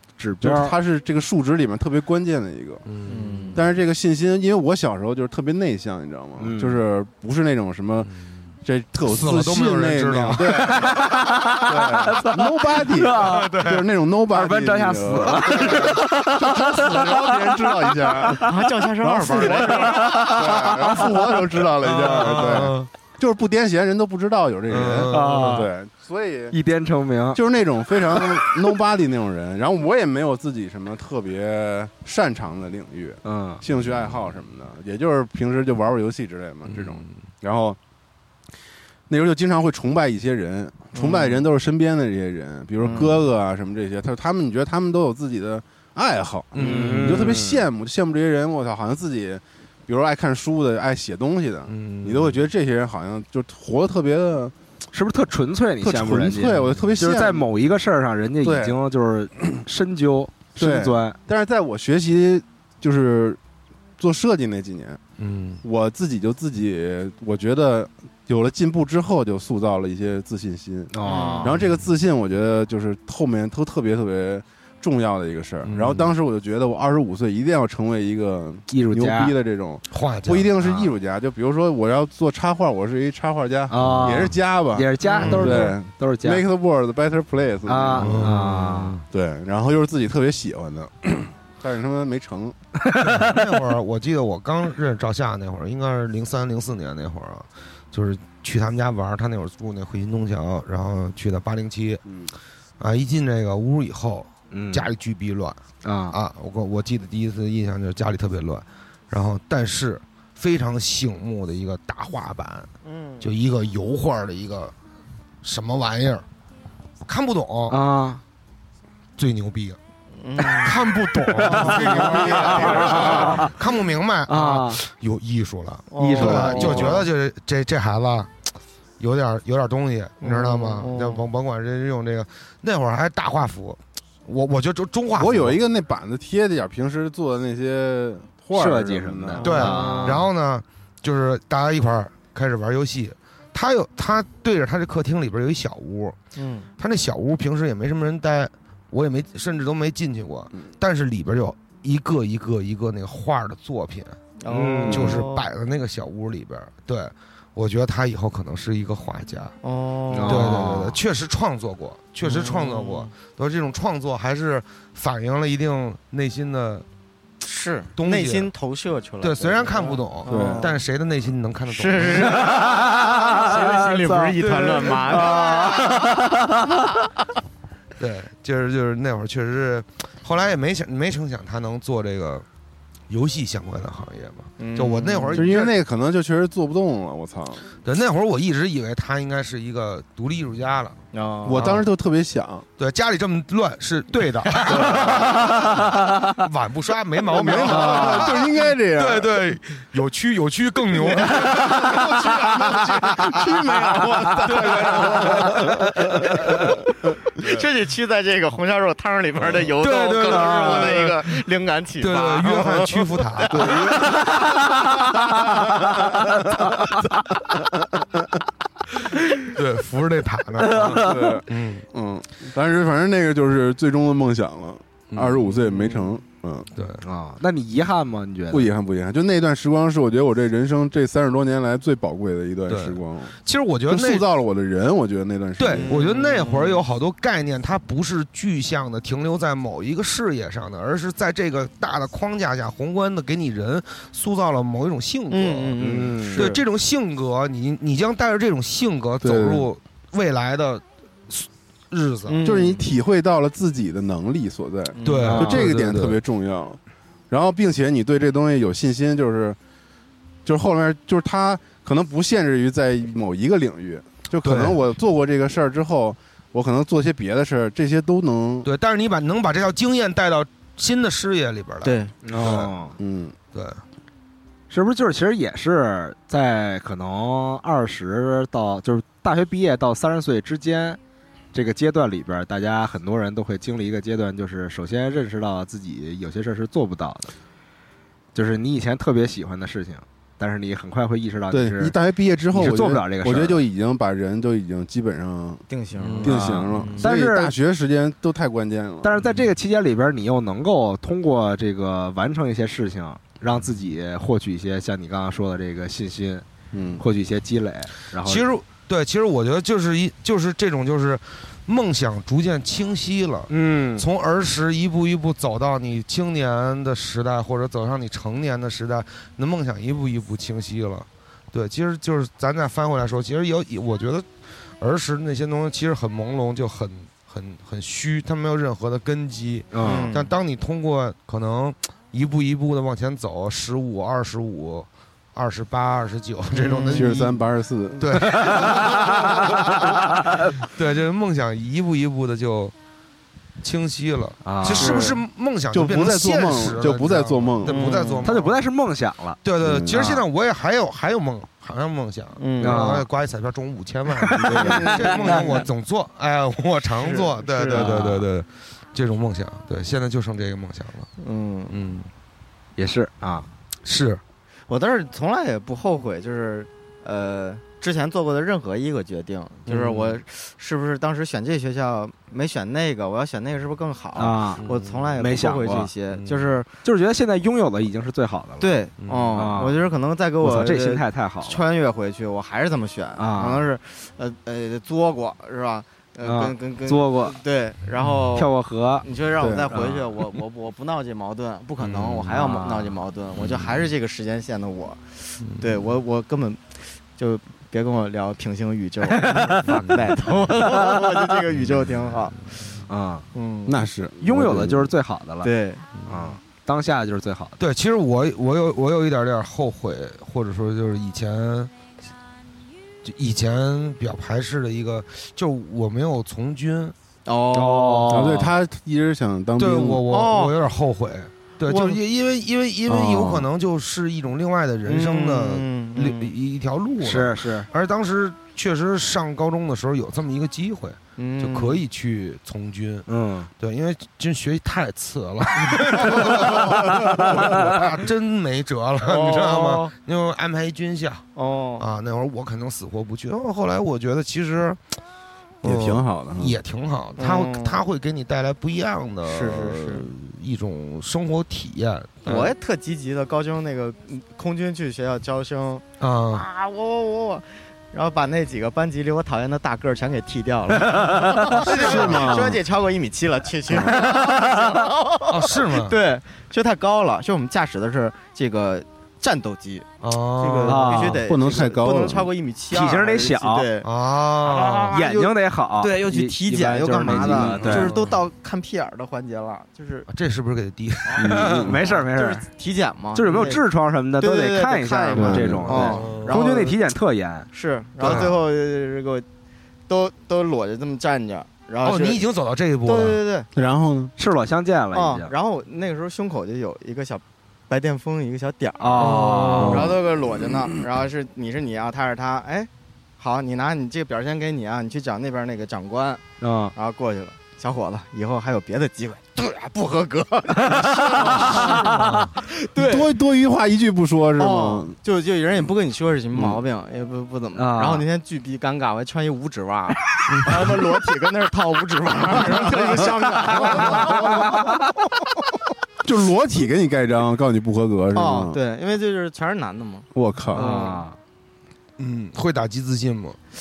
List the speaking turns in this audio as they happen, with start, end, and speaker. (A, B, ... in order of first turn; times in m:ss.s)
0:00.2-0:00.8 A
0:00.4-0:02.8 B
0:02.9-0:03.6 C
0:03.1-0:03.6 D
0:03.5-0:08.1 B
0:06.4-0:06.8 A
0:08.0-0:08.3 C
0:08.6-0:18.5 B
0:09.0-0:11.0 C
0:10.6-0:13.6 A
0:13.2-0:13.9 C
0:14.3-0:18.6 A
0:15.4-0:16.0 C
0:18.4-0:20.3 D
0:19.0-0:26.6 B
0:19.3-0:21.5 A
0:21.8-0:22.9 C
0:24.7-0:25.6 C
0:25.1-0:25.7 A
0:26.5-0:27.4 A
0:27.3-0:37.8 B
0:33.2-0:33.6 A
0:33.9-0:34.1 C
0:36.7-0:37.1 C
0:39.1-0:54.5 B
0:40.9-0:41.3 D
0:46.6-0:47.4 C
0:46.6-0:47.7 A
0:51.7-0:52.4 C
0:54.9-1:01.2 A
0:55.8-0:57.5 B
0:56.6-0:56.9 C
0:58.4-0:58.8 B
1:00.6-1:03.4 B
1:04.0-1:05.0 B
1:05.2-1:05.6 C
1:05.6-1:28.4 B
1:10.9-1:11.6 A
1:11.0-1:11.5 D
1:15.6-1:16.1 C
1:18.7-1:19.4 A
1:19.9-1:20.5 C
1:20.6-1:20.9 A
1:23.7-1:26.4 A
1:25.2-1:25.8 C
1:27.7-1:29.0 A
1:27.9-1:29.0 C
1:29.1-1:32.6 B
1:32.8-1:33.3 A
1:33.0-1:42.0 C
1:42.1-1:42.3 B
1:42.8-1:45.6 C
1:44.5-1:44.9 A
1:45.8-1:46.2 A
1:46.1-1:52.7 C
1:52.8-1:53.3 D
1:53.2-1:54.7 C
1:55.4-1:56.3 C
1:57.0-1:57.8 C
1:57.7-1:58.2 A
1:59.2-1:59.8 C
2:00.2-2:00.8 D
2:00.4-2:08.3 C
2:01.3-2:03.5 A
2:01.4-2:03.5 D
2:04.3-2:04.8 A
2:05.9-2:06.9 D
2:06.0-2:07.0 A
2:09.0-2:15.6 C
2:10.2-2:11.2 D
2:15.2-2:19.8 B
2:18.5-2:20.3 A
2:19.4-2:20.2 D
2:19.4-2:26.2 C
2:26.4-2:26.7 D
2:26.8-2:34.2 C
2:34.4-2:35.5 D
2:34.5-2:35.2 A
2:34.8-2:39.6 C
2:39.6-2:40.8 D
2:40.1-2:41.0 A
2:40.2-2:46.9 C
2:42.2-2:43.1 D
2:47.4-2:50.8 D
2:48.0-2:48.5 C
2:49.2-2:52.5 C
2:50.3-2:50.7 B
2:51.7-2:56.0 D
2:52.2-2:56.8 A
2:54.4-2:56.2 C
2:58.0-3:02.5 C
3:03.1-3:05.8 C
3:04.6-3:05.5 D
3:05.4-3:07.7 B
3:07.8-3:11.0 C
3:11.1-3:11.7 D
3:11.4-3:12.7 B
3:11.5-3:11.9 C
3:12.8-3:22.0 C
3:14.2-3:16.4 A
3:14.7-3:15.4 B
3:17.3-3:19.4 B
3:17.6-3:18.4 A
3:21.0-3:26.8 B
3:21.4-3:22.0 A
3:22.2-3:26.6 D
3:24.4-3:25.8 C
3:27.4-3:34.1 D
3:27.4-3:27.6 C
3:29.8-3:31.4 C
3:30.3-3:30.8 A
3:32.0-3:33.8 C
3:33.5-3:34.2 B
3:34.0-3:35.0 A
3:39.5-3:41.9 C
3:40.6-3:41.3 A
3:40.8-3:46.7 B
3:45.1-3:46.0 C
3:46.8-3:47.0 C
3:47.0-3:48.7 A
3:48.5-3:53.4 B
3:52.7-3:54.2 C
3:53.9-3:55.9 B
3:55.6-4:05.8 C
3:55.7-3:56.8 D
4:05.3-4:06.6 D
4:05.8-4:06.5 A
4:06.3-4:12.4 C
4:09.2-4:09.7 B
4:12.3-4:12.9 D
4:12.4-4:16.8 B
4:14.9-4:15.5 D
4:15.0-4:16.2 C
4:15.2-4:15.7 A
4:17.3-4:19.6 B
4:20.4-4:28.7 B
4:24.4-4:24.8 C
4:28.6-4:32.7 C
4:31.8-4:32.1 D
4:32.2-4:33.0 A
4:32.4-4:33.4 B
4:33.5-4:33.8 C
4:34.7-4:41.0 A
4:41.5-4:47.3 A
4:48.3-4:52.0 A
4:51.5-4:55.6 B
4:52.5-4:53.7 A
4:55.7-4:57.1 D
4:56.0-4:56.4 C
4:56.2-4:59.1 B
4:56.2-4:57.6 A
4:59.0-5:06.4 A
5:06.7-5:07.0 B
5:07.0-5:08.5 A
5:08.2-5:37.4 C
5:13.5-5:14.1 A
5:29.7-5:30.1 A
5:29.8-5:30.3 D
5:36.6-5:37.2 D
5:36.9-5:39.5 B
5:38.0-5:40.0 C
5:38.3-5:40.5 A
5:40.6-5:42.7 C
5:43.6-5:48.6 C
5:44.4-5:45.1 A
5:44.7-5:45.2 D
5:45.7-5:47.9 B
5:47.6-5:48.3 D
5:48.2-5:50.2 A
5:49.4-6:01.1 C
5:49.6-5:50.0 B
5:52.4-5:52.9 D
5:52.6-5:53.1 A
5:54.2-5:55.5 A
5:54.4-5:55.7 D
5:57.0-5:57.9 D
5:57.7-5:58.3 A
6:01.2-6:01.8 D
6:01.7-6:02.1 C
6:02.8-6:03.5 A
6:03.8-6:04.2 C
6:04.7-6:16.7 D
6:09.7-6:10.2 A
6:14.2-6:14.6 A
6:14.6-6:15.1 C
6:15.2-6:15.9 A
6:16.1-6:16.6 C
6:16.8-6:18.8 A
6:18.6-6:28.5 D
6:19.0-6:19.4 C
6:19.3-6:19.9 A
6:20.4-6:21.6 A
6:23.2-6:23.6 A
6:26.2-6:27.4 A
6:28.4-6:29.1 A
6:29.0-6:42.4 D
6:29.4-6:29.8 B
6:29.7-6:30.3 A
6:31.8-6:33.6 A
6:35.4-6:35.8 C
6:39.2-6:39.7 A
6:39.6-6:40.0 C
6:40.6-6:41.3 A
6:41.5-6:42.7 C
6:42.9-6:43.3 A
6:43.3-6:43.8 D
6:43.7-6:44.9 B
6:44.2-6:45.5 A
6:45.4-6:45.8 D
6:46.0-6:46.4 C
6:46.1-6:47.6 A
6:47.6-6:51.7 C
6:53.0-6:57.0 C
6:57.3-6:58.3 D
6:57.5-6:58.5 A
6:58.1-7:00.0 B
6:59.6-7:13.1 C
7:00.1-7:00.6 D
7:01.6-7:02.0 D
7:02.9-7:03.5 B
7:04.9-7:06.3 D
7:07.0-7:07.7 A
7:11.2-7:11.8 D
7:13.1-7:13.5 A
7:13.6-7:21.2 C
7:16.6-7:17.8 A
7:19.0-7:19.9 D
7:21.4-7:21.9 D
7:21.8-7:25.0 C
7:25.6-7:32.5 C
7:25.6-7:26.6 B
7:27.2-7:27.8 D
7:29.2-7:30.1 D
7:32.2-7:49.9 D
7:36.0-7:36.4 C
7:40.9-7:41.6 A
7:41.6-7:42.6 B
7:41.6-7:42.4 C
7:43.7-7:44.0 B
7:43.9-7:44.8 A
7:45.3-7:46.0 C
7:50.0-7:51.1 C
7:50.4-7:53.9 D
7:50.6-7:51.3 A
7:51.3-7:52.3 B
7:52.7-7:53.7 A
7:53.8-7:55.0 C
7:54.4-8:00.1 D
7:54.9-7:57.9 A
7:57.6-7:58.2 C
8:00.1-8:01.8 C
8:01.2-8:01.8 B
8:01.3-8:02.5 A
8:01.8-8:03.6 D
8:03.1-8:07.5 A
8:04.2-8:06.8 D
8:05.2-8:05.9 B
8:05.7-8:06.4 C
8:07.5-8:09.3 D
8:08.0-8:08.4 C
8:09.9-8:12.2 D
8:11.8-8:13.2 C
8:12.8-8:13.5 D
8:13.6-8:14.1 B
8:14.2-8:15.3 A
8:14.9-8:26.2 D
8:18.8-8:20.0 A
8:19.0-8:19.9 C
8:26.4-8:26.7 A
8:26.8-8:31.9 D
8:30.6-8:32.2 A
8:31.4-8:32.4 C
8:32.4-8:33.1 D
8:32.8-8:35.0 B
8:34.4-8:44.5 D
8:37.6-8:38.0 A
8:40.3-8:40.6 C
8:42.6-8:44.7 B
8:44.2-8:44.7 A
8:46.0-8:48.6 B
8:48.1-8:51.0 D
8:50.2-8:50.6 B
8:50.5-8:51.2 A
8:52.0-8:53.4 C